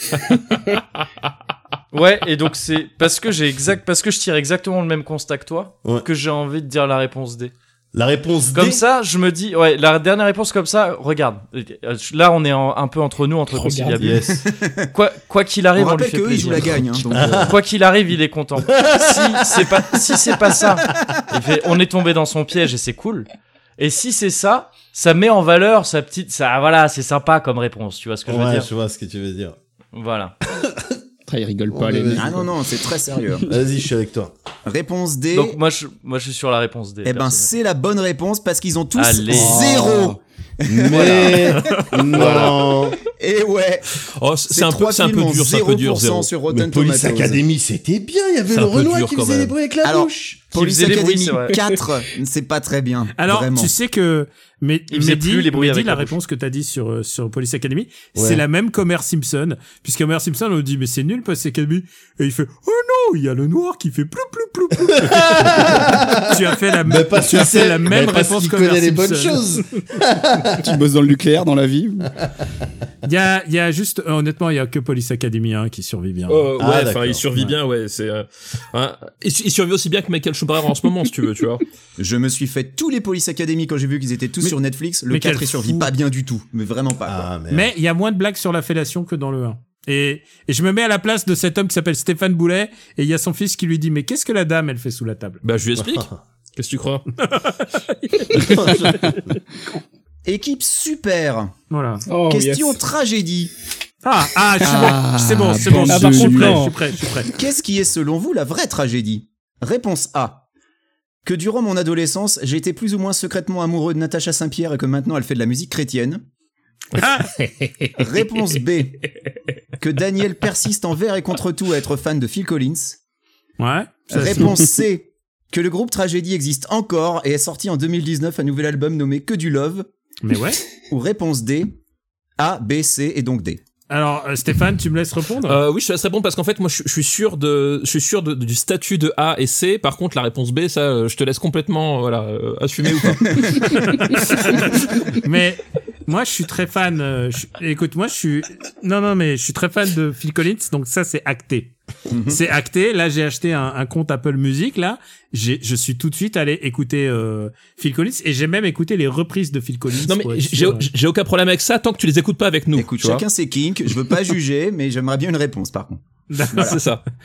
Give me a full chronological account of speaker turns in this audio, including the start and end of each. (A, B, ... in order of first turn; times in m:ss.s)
0:01.9-0:07.5 A
0:07.9-0:08.8 B
0:08.5-0:14.4 A
0:13.5-0:14.0 C
0:14.0-0:14.4 B
0:14.3-0:14.9 D
0:14.9-0:23.3 A
0:15.7-0:17.6 D
0:17.1-0:17.6 B
0:18.6-0:20.1 B
0:23.8-0:28.7 A
0:28.3-0:29.6 B
0:29.9-0:30.3 A
0:31.3-0:32.4 E
0:31.7-0:32.5 B
0:32.1-0:33.5 D
0:33.4-0:34.3 B
0:34.6-0:35.6 D
0:35.3-0:37.5 A
0:37.0-0:42.4 D
0:38.9-0:39.8 A
0:39.5-0:40.2 E
0:40.6-0:43.0 B
0:41.0-0:41.2 A
0:41.3-0:41.8 F
0:42.1-0:42.6 A
0:43.2-0:47.4 D
0:44.2-0:46.3 F
0:46.5-0:50.4 B
0:48.5-0:49.5 F
0:49.8-0:53.7 D
0:50.5-0:51.6 A
0:53.2-1:09.6 G
0:54.9-0:56.2 A
0:58.1-0:58.4 B
1:04.8-1:10.6 B
1:10.6-1:12.1 E
1:13.0-1:16.4 G
1:16.3-1:21.6 F
1:16.6-1:17.3 B
1:22.0-1:27.3 D
1:25.1-1:25.9 G
1:27.0-1:27.7 B
1:27.5-1:35.4 G
1:35.4-1:37.1 F
1:35.8-1:36.2 B
1:37.2-1:37.6 G
1:38.2-1:38.7 G
1:38.4-1:39.2 B
1:40.2-1:41.5 D
1:41.7-1:42.0 G
1:42.0-1:42.8 C
1:42.3-1:43.5 D
1:44.0-1:47.3 G
1:44.6-1:46.7 E
1:45.8-1:46.7 C
1:47.3-1:50.4 D
1:51.2-1:56.2 D
1:57.0-1:57.4 G
1:58.0-1:59.0 D
1:59.8-2:03.0 D
2:03.6-2:04.6 G
2:04.1-2:09.9 D
2:10.2-2:10.6 G
2:10.9-2:11.7 D
2:12.4-2:13.6 D
2:13.9-2:15.6 G
2:15.5-2:24.0 F
2:23.6-2:31.7 G
2:32.1-2:32.4 D
2:32.3-2:40.9 G
2:40.0-2:43.2 F
2:42.7-2:46.0 D
2:46.3-2:46.8 G
2:46.5-2:46.8 D
2:46.6-2:47.0 F